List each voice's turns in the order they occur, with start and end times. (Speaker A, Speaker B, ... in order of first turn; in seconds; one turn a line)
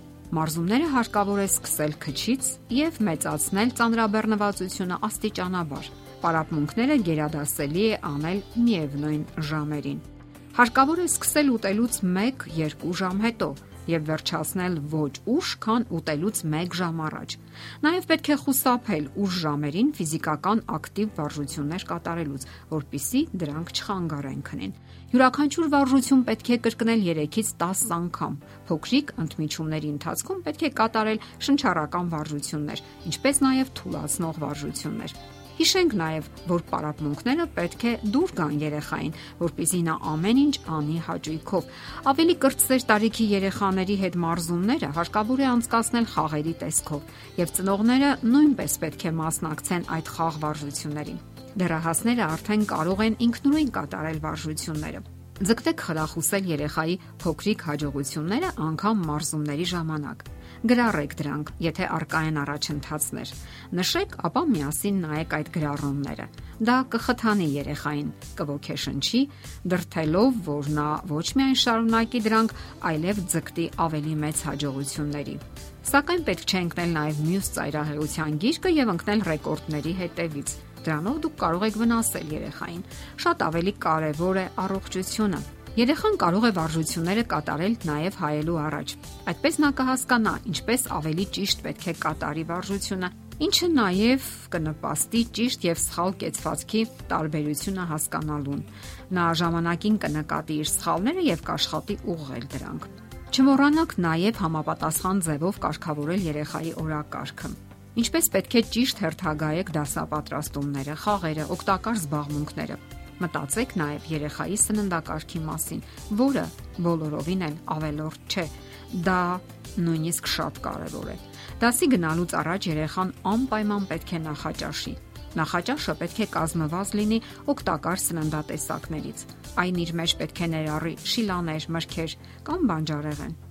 Speaker A: 0.3-133.4